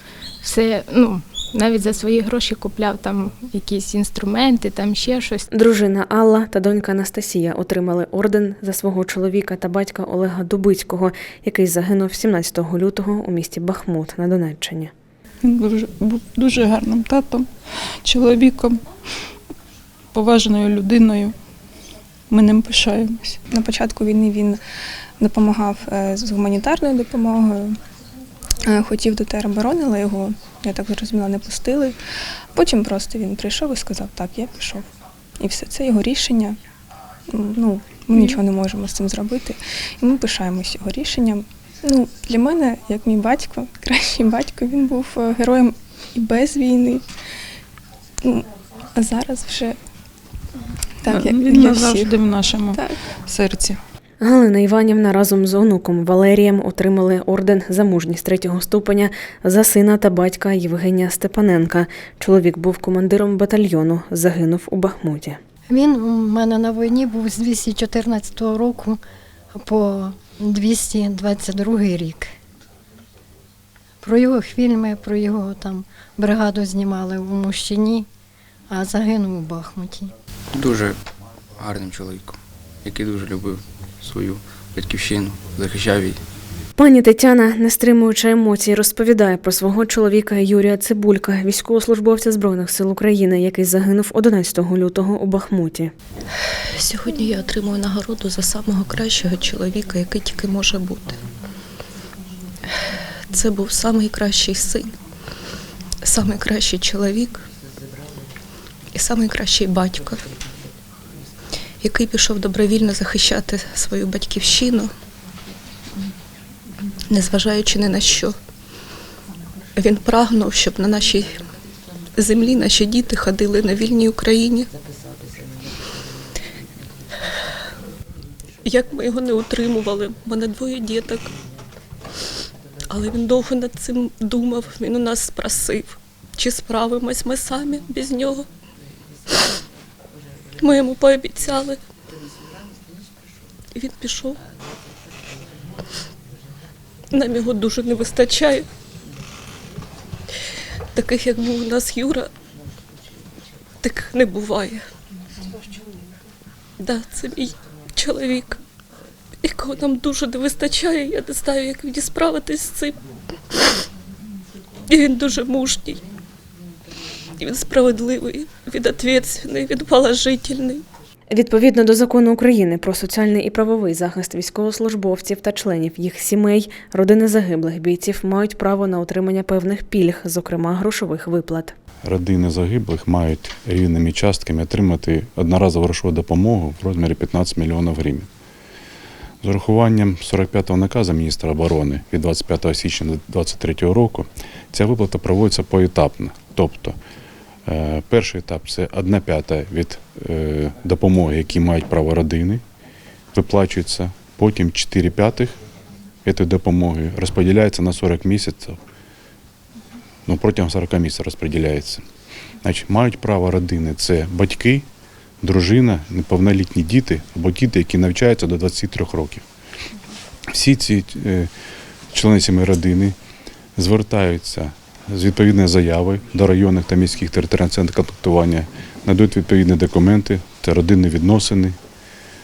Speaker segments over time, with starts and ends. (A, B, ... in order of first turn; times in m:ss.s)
0:00.4-0:05.5 A
0:05.5-0:14.9 B
0:15.4-0:17.5 C
0:18.0-0:18.8 C
0:20.1-0:21.3 C
0:22.3-0:23.4 C
0:23.5-0:24.6 D
0:25.2-0:27.8 D
0:28.6-0:32.0 D
0:32.6-0:34.9 D
0:35.4-0:36.6 D
0:37.3-0:47.0 D
0:48.2-0:49.8 D
0:51.0-0:53.0 D
0:51.1-0:53.8 C
0:54.2-1:05.4 B
1:05.7-1:09.0 E
1:09.5-1:12.3 E
1:14.0-1:18.1 E
1:18.7-1:20.1 E
1:20.5-1:26.2 F
1:26.8-1:35.9 B
1:36.8-1:41.2 G
1:43.3-1:44.9 G
1:46.0-1:47.4 G
1:49.0-1:50.3 G
1:51.8-1:54.9 G
1:57.1-1:58.4 G
1:59.8-2:01.4 G
2:02.2-2:04.7 G
2:08.6-2:11.3 G
2:12.9-2:18.5 G
2:20.6-2:21.8 G
2:23.7-2:24.4 G
2:27.1-2:28.7 G
2:31.0-2:32.3 G
2:33.8-2:34.9 G
2:36.8-2:38.6 G
2:39.4-2:43.0 G
2:44.9-2:46.0 G
2:47.4-2:50.8 G
2:51.3-3:01.7 B
3:02.0-3:08.3 H
3:09.4-3:17.0 H
3:17.7-3:22.6 H
3:23.3-3:25.6 H
3:26.2-3:28.8 H
3:30.3-3:32.0 H
3:32.6-3:34.9 H
3:35.4-3:39.4 H
3:40.5-3:41.5 H
3:42.1-3:43.2 H
3:43.8-3:51.8 H